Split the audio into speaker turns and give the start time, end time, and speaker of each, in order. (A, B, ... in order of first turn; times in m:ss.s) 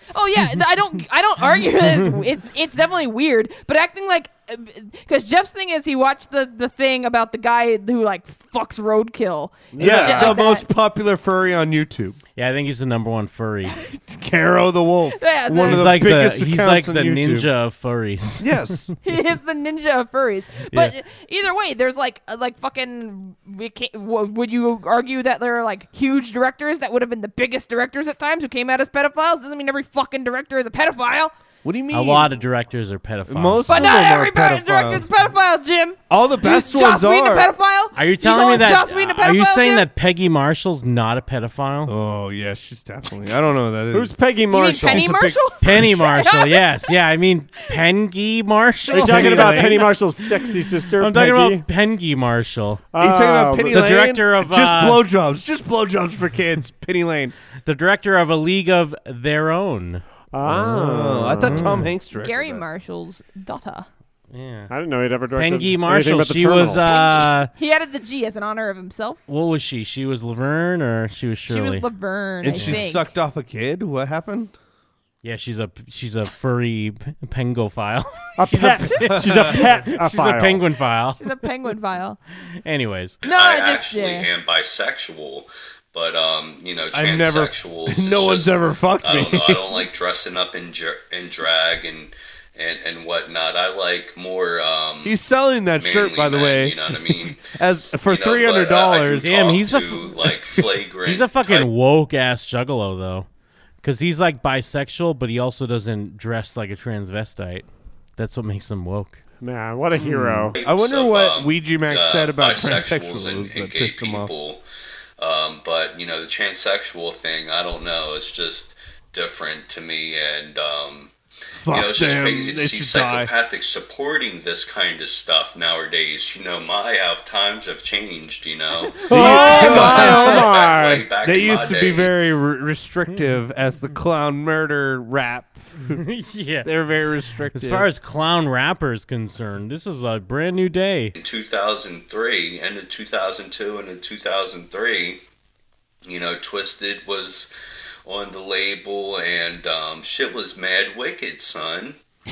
0:00.1-0:10.7 A
0:09.7-0:10.3 B
0:09.8-0:12.2 C
0:12.4-0:13.8 D
0:14.2-0:17.5 C
0:15.1-0:16.0 A
0:15.7-0:18.8 D
0:18.4-0:18.9 C
0:19.0-0:31.3 A
0:31.6-0:32.3 C
0:31.9-0:33.9 D
0:33.3-0:35.1 C
0:33.7-0:39.9 A
0:36.1-0:37.5 C
0:37.9-0:41.9 D
0:41.8-0:44.2 C
0:43.9-0:45.3 B
0:44.5-0:46.9 A
0:44.7-0:46.0 C
0:45.6-0:49.8 D
0:48.9-0:51.6 B
0:48.9-0:49.8 C
0:49.1-0:49.6 A
0:51.0-0:52.8 D
0:52.9-0:53.7 B
0:53.0-0:57.3 C
0:53.7-0:55.0 D
0:57.6-1:00.0 D
1:00.3-1:01.8 B
1:00.4-1:02.6 C
1:01.4-1:01.9 D
1:02.1-1:03.9 A
1:04.3-1:04.7 D
1:04.7-1:06.8 B
1:05.3-1:07.5 D
1:06.8-1:09.2 A
1:09.3-1:11.8 D
1:11.5-1:13.1 A
1:12.4-1:14.5 C
1:12.6-1:12.8 D
1:15.2-1:21.2 D
1:18.4-1:20.6 B
1:21.2-1:22.2 A
1:22.6-1:23.2 D
1:23.2-1:24.3 A
1:23.2-1:35.2 E
1:26.9-1:29.8 C
1:35.0-1:39.5 C
1:35.8-1:37.5 E
1:38.0-1:41.7 E
1:39.2-1:40.2 D
1:41.0-1:43.3 D
1:43.8-1:47.6 D
1:48.2-1:49.2 D
1:49.4-1:50.5 B
1:50.0-1:54.3 C
1:50.5-1:54.6 E
1:55.2-2:01.1 E
2:01.6-2:03.3 C
2:01.7-2:12.3 E
2:09.1-2:11.1 B
2:09.1-2:10.5 C
2:11.2-2:16.0 C
2:15.9-2:16.7 D
2:16.6-2:17.9 C
2:17.5-2:21.1 D
2:21.1-2:25.2 E
2:26.0-2:27.5 E
2:28.0-2:32.0 E